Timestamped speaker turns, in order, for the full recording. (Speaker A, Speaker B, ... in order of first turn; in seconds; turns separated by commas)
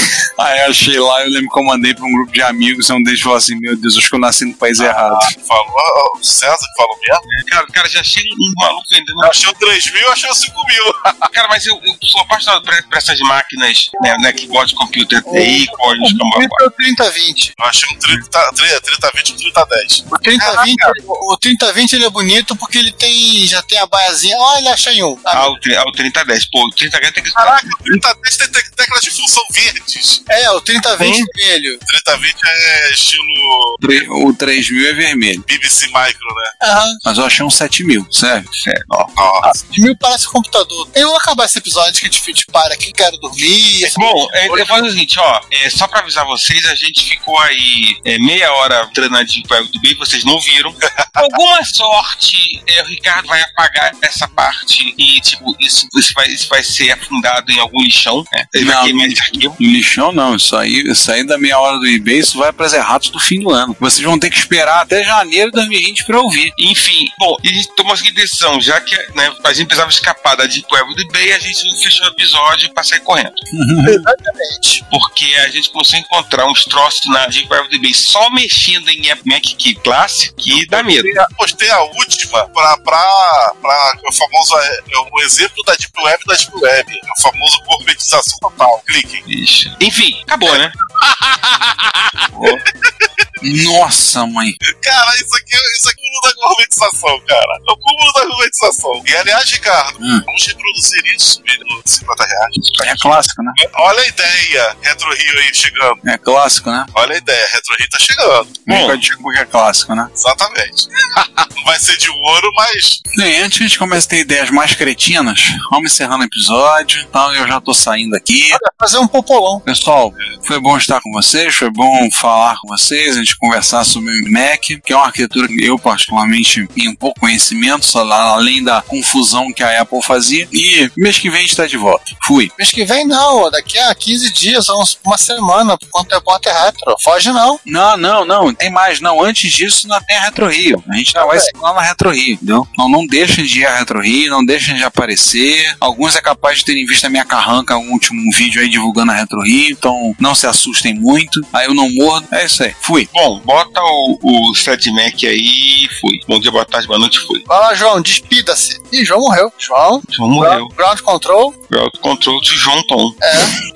Speaker A: 0.4-5.3, Speaker B: 4.8-7.2, Speaker C: 7.3-9.4, Speaker B: 9.2-11.3, Speaker C: 11.3-16.6, Speaker D: 15.3-17.5, Speaker B: 17.6-20.8, Speaker D: 20.1-25.6, Speaker C: 25.3-28.0, Speaker B: 27.4-30.2, Speaker D: 30.3-31.8, Speaker C: 31.0-31.3, Speaker B: 31.9-34.1, Speaker A: 33.8-35.5, Speaker B: 35.5-36.5, Speaker D: 36.6-37.0, Speaker A: 37.0-38.5, Speaker C: 38.5-39.1, Speaker B: 39.2-39.5, Speaker D: 39.4-44.7, Speaker C: 43.9-59.6, Speaker A: 58.5-66.5, Speaker C: 66.6-73.4, Speaker A: 73.5-74.1, Speaker D: 73.8-74.8, Speaker C: 74.9-81.2, Speaker B: 80.5-89.2, Speaker C: 89.3-90.7, Speaker B: 90.4-91.5, Speaker C: 91.8-92.6, Speaker B: 92.5-93.1, Speaker A: 93.4-94.6, Speaker B: 94.7-106.0, Speaker A: 100.0-100.2, Speaker A: 102.8-103.6, Speaker A: 106.0-106.9, Speaker B: 107.0-108.7, Speaker A: 108.7-110.1, Speaker C: 108.7-109.0, Speaker B: 110.2-110.9, Speaker B: 111.6-113.0, Speaker A: 113.2-118.6, Speaker D: 118.5-119.6, Speaker A: 119.7-132.5, Speaker D: 132.6-137.6, Speaker A: 137.7-153.1, Speaker D: 141.2-141.5, Speaker C: 153.1-157.4, Speaker D: 157.5-161.6, Speaker C: 160.1-160.7, Speaker C: 161.7-163.2, Speaker D: 163.2-163.6